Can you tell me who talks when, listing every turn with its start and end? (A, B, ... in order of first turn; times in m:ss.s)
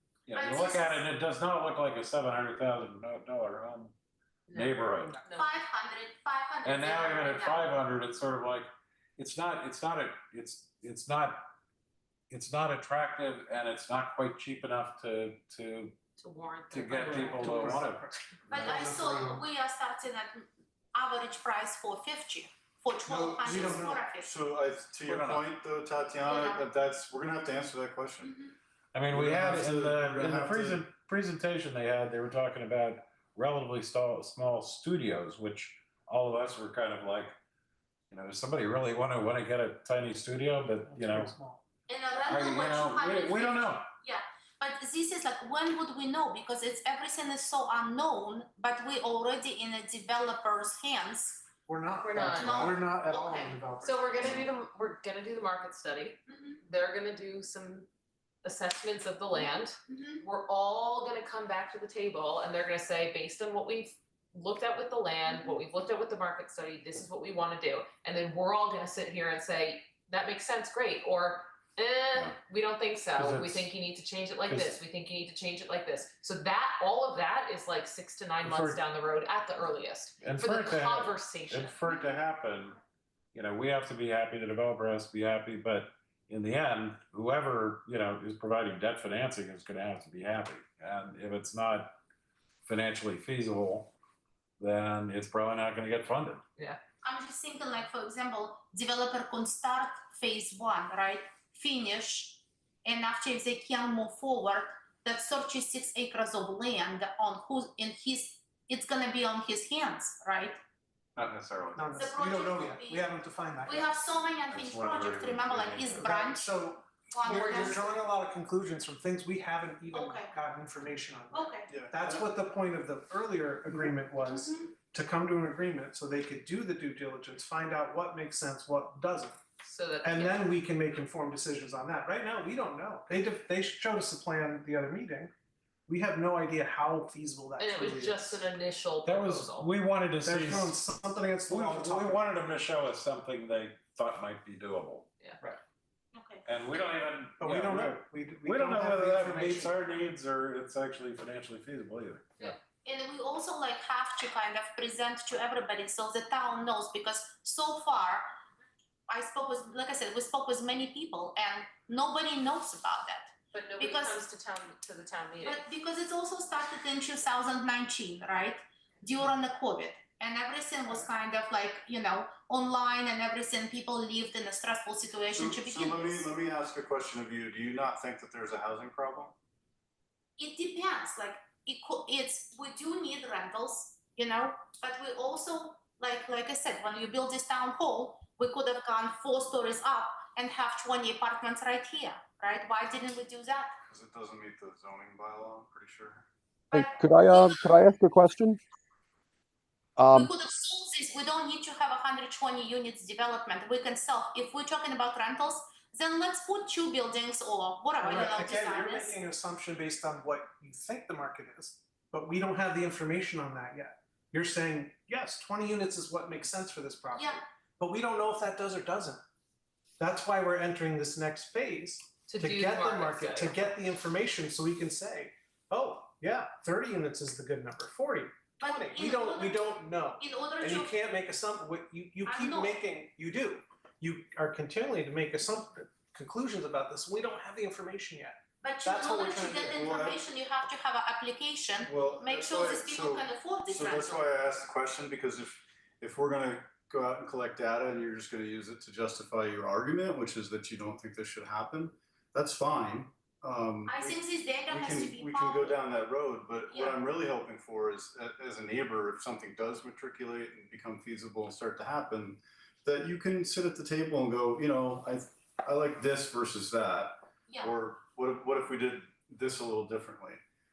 0:00.3-0:03.9 A
0:00.3-0:01.1 B
0:04.5-0:05.5 C
0:04.5-0:05.2 A
0:05.3-0:07.7 B
0:06.6-0:11.4 A
0:12.3-0:15.9 A
0:16.2-0:17.8 C
0:16.7-0:18.0 A
0:16.9-0:19.4 D
0:18.5-0:24.3 B
0:23.1-0:28.3 E
0:23.3-0:24.0 D
0:25.0-0:25.5 A
0:26.2-0:26.6 B
0:28.2-0:28.5 B
0:28.9-0:37.3 A
0:29.1-0:30.8 E
0:38.1-0:41.3 A
0:40.8-0:41.6 D
0:41.9-0:51.4 B
0:42.3-0:43.9 A
0:51.7-0:54.4 D
0:52.0-0:52.7 C
0:52.3-0:53.6 B
0:53.8-0:57.9 C
0:56.3-0:56.6 B
0:58.4-1:21.8 C
0:59.3-1:00.2 B
1:05.2-1:05.6 B
1:13.2-1:13.7 A
1:14.4-1:14.7 A
1:18.4-1:18.8 A
1:20.2-1:22.8 A
1:23.3-1:32.0 A
1:32.7-1:33.9 A
1:34.6-1:36.4 A
1:37.0-1:50.6 B
1:51.2-1:51.9 A
1:51.7-1:53.9 D
1:51.9-1:53.1 B
1:53.6-1:56.5 B
1:54.5-1:56.0 A
1:56.0-2:09.4 D
1:57.1-1:57.9 B
1:59.9-2:00.3 B
2:01.3-2:01.7 B
2:01.7-2:02.3 E
2:04.3-2:04.7 B
2:09.6-2:10.5 C
2:10.0-2:15.3 D
2:15.9-2:18.4 D
2:17.6-2:19.7 C
2:19.0-2:20.8 A
2:20.2-2:22.3 D
2:21.5-2:25.1 A
2:26.1-2:26.4 B
2:26.4-2:32.6 A
2:27.4-2:29.8 D
2:32.8-2:38.3 B
2:39.1-2:44.2 B
2:43.5-2:45.6 C
2:45.4-2:56.3 B
2:55.3-2:59.4 E
3:00.4-3:13.7 B
3:13.9-3:16.2 E
3:16.7-3:17.8 B
3:16.7-3:18.6 F
3:20.0-3:20.3 F
3:20.1-3:29.2 B
3:28.0-3:39.2 D
3:37.1-3:37.4 B
3:40.0-3:59.8 D
3:42.3-3:43.7 C
3:48.6-3:50.9 B
3:52.2-3:52.8 B
3:58.6-4:04.2 B
3:59.7-4:00.2 E
4:01.8-4:14.2 E
4:13.9-4:15.8 B
4:14.7-4:30.4 E
4:16.7-4:17.0 B
4:27.5-4:27.7 B